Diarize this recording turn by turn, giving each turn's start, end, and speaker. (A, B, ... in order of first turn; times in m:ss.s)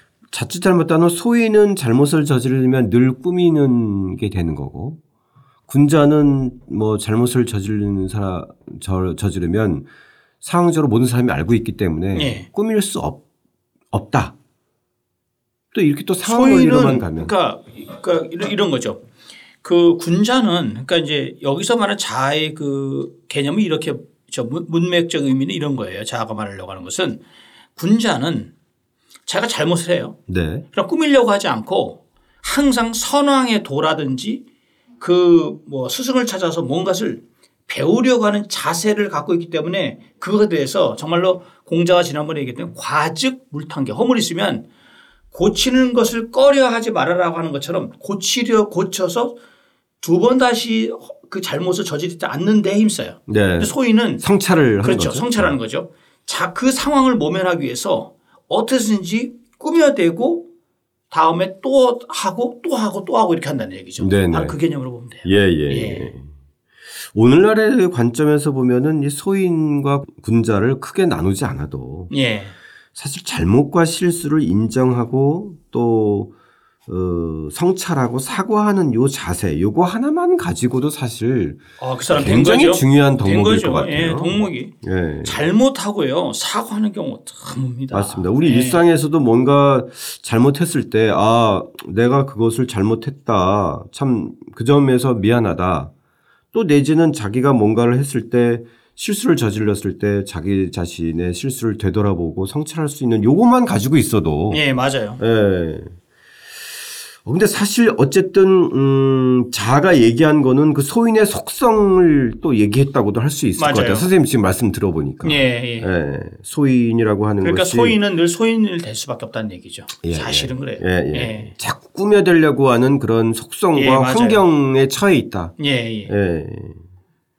0:00.3-0:05.0 A
0:05.7-0:09.8 A
0:10.4-0:13.2 A
0:12.1-0:12.4 B
0:13.9-0:14.3 A
0:15.7-0:17.3 A
0:16.2-0:19.0 B
0:19.6-0:27.2 B
0:27.8-0:28.5 B
0:29.2-0:30.2 B
0:30.3-0:30.6 A
0:30.7-0:34.4 B
0:35.0-0:44.6 B
0:45.3-0:49.4 B
0:50.0-0:54.2 B
0:53.3-0:55.5 A
0:54.8-1:00.5 B
1:01.1-1:06.1 B
1:04.0-1:04.6 A
1:05.2-1:06.3 A
1:07.1-1:12.1 A
1:12.1-1:12.6 B
1:12.9-1:16.3 A
1:16.9-1:25.5 A
1:21.8-1:24.7 B
1:25.2-1:28.8 B
1:27.9-1:35.9 A
1:36.5-1:44.6 A
1:44.5-1:45.2 B
1:45.2-1:45.9 A
1:47.2-1:58.0 A
1:53.6-1:54.1 B
1:55.2-1:55.9 B
1:57.4-2:01.5 B
2:00.0-2:05.5 A
2:03.7-2:04.4 B
2:05.6-2:06.1 B
2:06.1-2:06.8 A